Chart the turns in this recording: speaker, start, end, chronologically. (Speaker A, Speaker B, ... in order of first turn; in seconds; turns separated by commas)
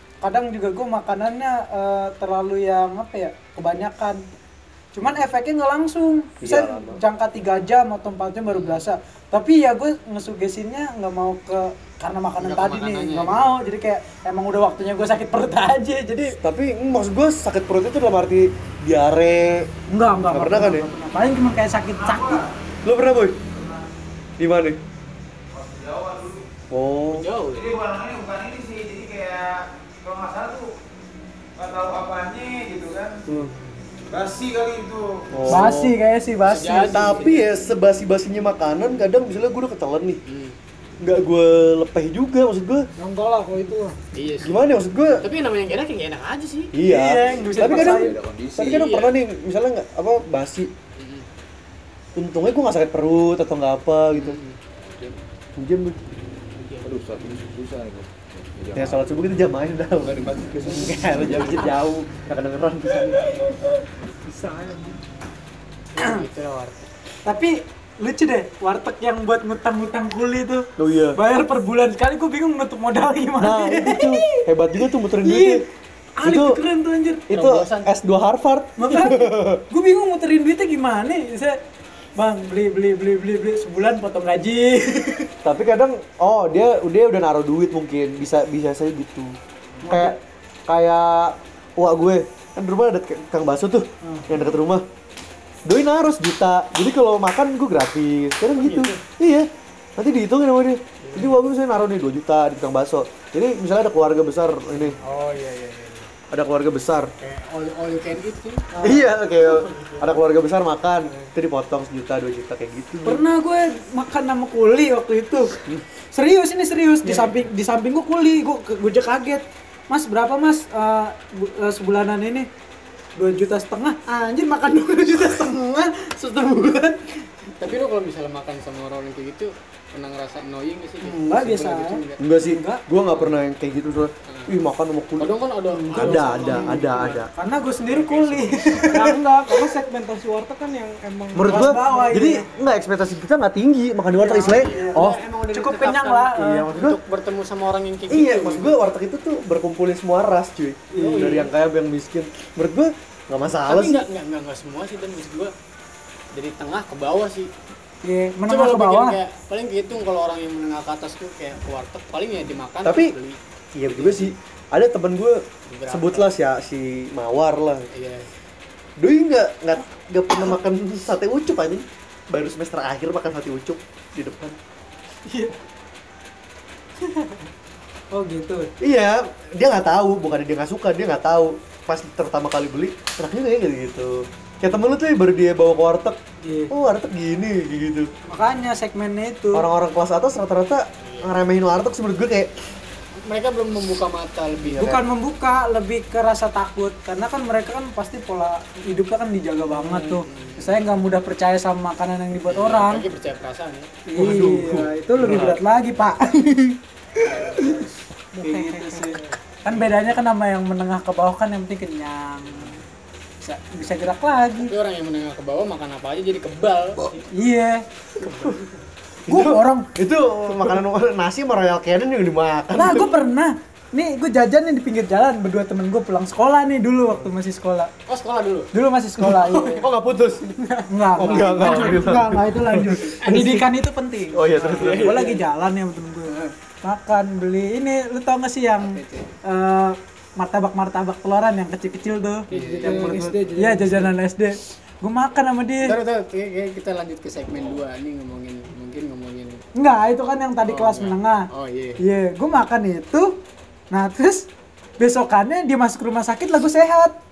Speaker A: 0.2-4.2, Speaker A: 4.9-16.4, Speaker B: 6.4-7.0, Speaker C: 8.5-8.8, Speaker C: 12.4-13.6, Speaker B: 16.4-19.7, Speaker A: 19.9-22.4, Speaker B: 20.3-20.9, Speaker D: 22.0-22.5, Speaker B: 22.8-23.4, Speaker D: 23.5-23.9, Speaker B: 24.4-24.8, Speaker D: 25.5-26.5, Speaker B: 26.7-27.2, Speaker C: 27.1-27.7, Speaker D: 27.5-30.7, Speaker D: 31.6-33.2, Speaker B: 33.3-33.5, Speaker D: 34.1-35.3, Speaker B: 35.3-35.9, Speaker A: 35.5-37.1, Speaker C: 36.5-37.6, Speaker B: 36.9-40.2, Speaker C: 40.2-40.5, Speaker B: 41.0-42.9, Speaker E: 43.0-44.0, Speaker C: 44.1-44.6, Speaker B: 44.4-45.3, Speaker C: 45.2-46.7, Speaker B: 46.7-50.7, Speaker A: 46.8-48.2, Speaker F: 47.3-48.8, Speaker C: 48.6-49.2, Speaker C: 51.0-51.2, Speaker B: 52.1-54.4, Speaker C: 54.1-54.6, Speaker F: 54.8-55.2, Speaker B: 55.5-56.0, Speaker C: 56.6-56.9, Speaker F: 56.8-59.4, Speaker B: 58.7-63.4, Speaker F: 60.0-61.7, Speaker C: 61.0-61.5, Speaker E: 64.3-64.9, Speaker C: 65.9-66.9, Speaker A: 67.2-74.5, Speaker B: 70.8-71.2, Speaker B: 73.4-75.6, Speaker A: 75.1-75.6, Speaker A: 76.2-77.3, Speaker B: 76.2-76.6, Speaker B: 77.3-79.6, Speaker C: 77.3-78.0, Speaker A: 78.8-81.6, Speaker A: 82.2-85.3, Speaker B: 85.4-89.3, Speaker A: 89.8-90.2, Speaker B: 89.9-94.8, Speaker A: 94.0-94.3, Speaker B: 95.7-105.0, Speaker C: 98.6-99.0, Speaker C: 101.0-101.4, Speaker C: 104.7-106.1, Speaker B: 106.3-107.1, Speaker C: 107.2-110.1, Speaker A: 108.7-109.0, Speaker B: 108.8-113.2, Speaker A: 113.0-115.6, Speaker A: 116.1-122.5, Speaker A: 123.2-127.1, Speaker C: 127.6-132.3, Speaker A: 131.0-132.8, Speaker B: 132.2-135.3, Speaker C: 134.3-134.5, Speaker C: 135.2-137.3, Speaker A: 135.7-139.2, Speaker B: 135.9-137.3, Speaker C: 137.8-139.0, Speaker E: 138.9-142.0, Speaker B: 141.3-145.2, Speaker A: 141.4-142.5, Speaker C: 144.2-148.8, Speaker A: 144.3-146.7, Speaker B: 146.4-147.0, Speaker B: 148.1-154.0, Speaker A: 150.9-151.4, Speaker C: 150.9-151.5, Speaker C: 153.6-155.5, Speaker C: 156.3-157.5, Speaker A: 158.0-159.2, Speaker C: 158.5-163.4, Speaker B: 162.8-163.1, Speaker B: 163.7-167.9, Speaker C: 163.9-164.3, Speaker C: 165.7-166.3, Speaker C: 167.9-168.3, Speaker B: 169.0-174.6, Speaker A: 175.3-175.6, Speaker A: 177.0-177.4, Speaker A: 178.1-178.7, Speaker B: 178.8-186.2, Speaker A: 186.4-186.7, Speaker B: 186.7-188.1, Speaker A: 188.3-189.6, Speaker B: 189.5-192.5, Speaker C: 193.2-194.9, Speaker B: 194.6-195.0, Speaker A: 194.8-203.1, Speaker C: 199.7-200.8, Speaker C: 202.5-203.9, Speaker A: 204.1-212.8, Speaker B: 204.1-205.6, Speaker C: 207.2-207.9, Speaker E: 208.3-209.1, Speaker C: 209.1-209.8, Speaker A: 213.4-214.7, Speaker C: 214.6-217.3, Speaker A: 217.3-217.8, Speaker C: 218.2-218.7, Speaker B: 218.3-218.6, Speaker B: 219.2-223.1, Speaker A: 219.3-219.9, Speaker A: 222.7-227.9, Speaker C: 228.1-228.7, Speaker A: 228.7-229.8, Speaker B: 229.2-230.6, Speaker C: 230.6-232.0, Speaker A: 230.9-242.5, Speaker B: 231.2-233.7, Speaker B: 234.3-235.2, Speaker C: 234.5-235.4, Speaker C: 238.8-239.3, Speaker C: 242.5-243.7, Speaker E: 242.5-244.1, Speaker B: 242.8-243.4, Speaker A: 243.6-246.0, Speaker C: 245.8-249.6, Speaker A: 249.7-251.5, Speaker C: 250.7-252.0, Speaker A: 252.0-253.3, Speaker A: 253.9-254.5, Speaker A: 255.0-257.1